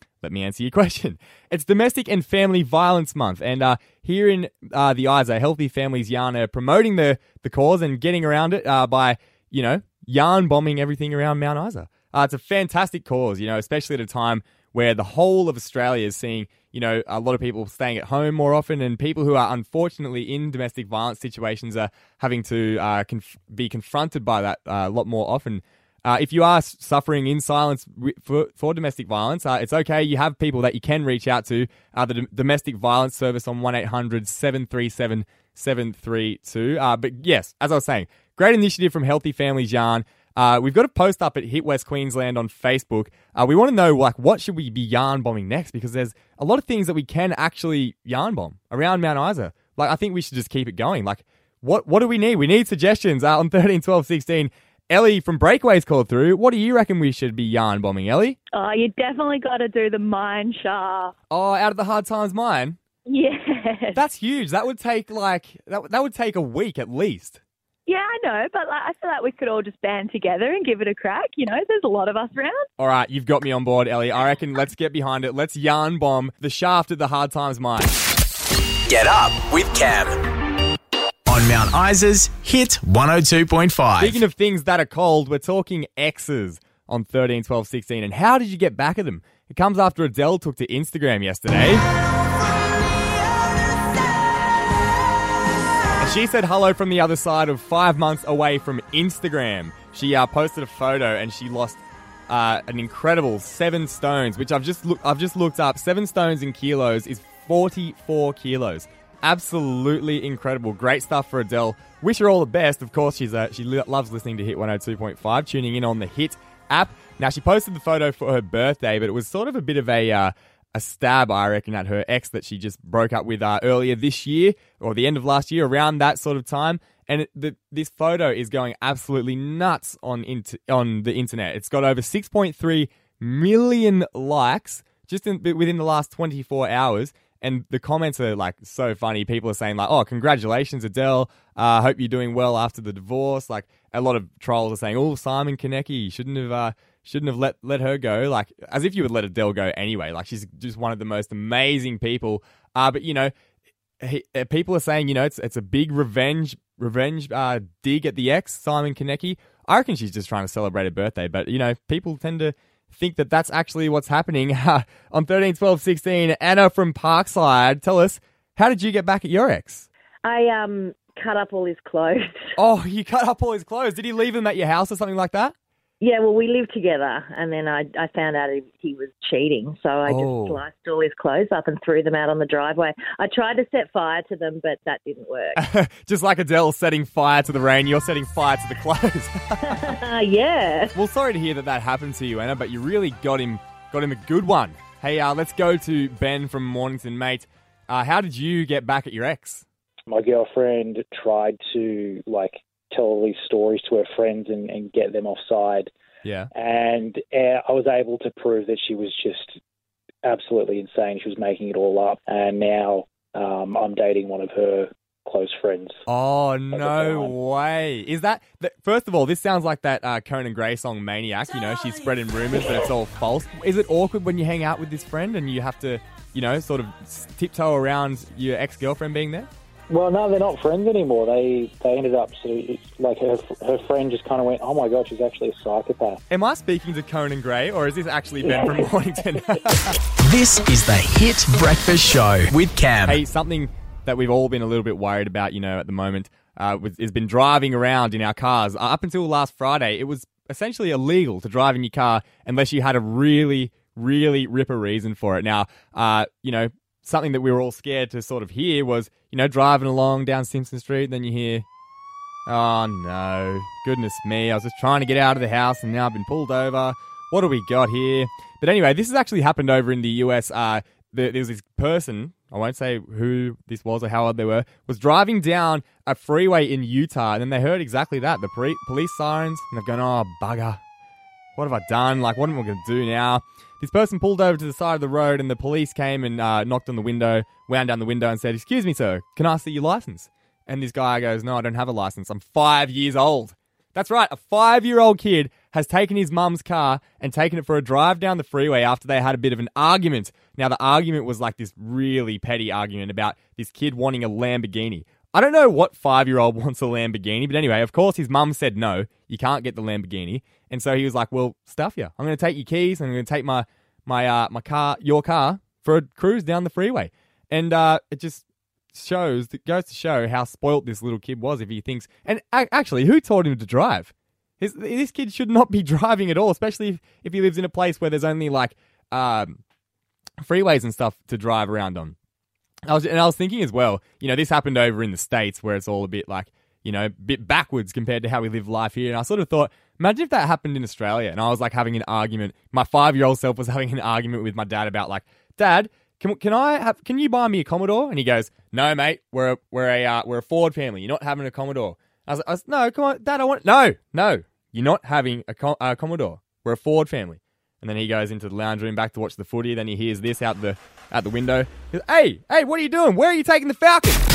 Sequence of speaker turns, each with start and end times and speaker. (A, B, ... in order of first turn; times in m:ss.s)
0:00.2-0:58.4 A
0:58.5-1:01.1 B
1:01.3-1:02.8 A
1:03.1-1:04.0 B
1:03.9-1:07.4 A
1:07.9-1:12.7 B
1:12.8-1:17.9 A
1:18.9-1:20.2 C
1:21.3-1:24.2 C
1:24.0-1:31.8 A
1:36.0-2:33.3 A
2:34.0-2:49.9 A
2:50.3-2:52.5 D
2:52.6-2:55.6 A
2:56.0-3:05.6 D
3:00.1-3:00.6 A
3:05.6-3:10.0 A
3:09.7-3:10.9 D
3:10.9-3:19.7 A
3:20.1-3:25.9 E
3:26.2-3:26.5 A
3:26.5-3:29.6 E
3:30.2-3:36.0 E
3:36.1-3:49.5 A
3:36.7-3:37.3 E
3:49.9-3:56.2 E
3:56.3-4:00.0 A
4:00.2-4:03.2 C
4:03.0-4:21.7 A
4:22.5-4:40.8 A
4:41.6-5:29.6 A
5:30.4-5:32.2 A
5:32.9-6:04.2 A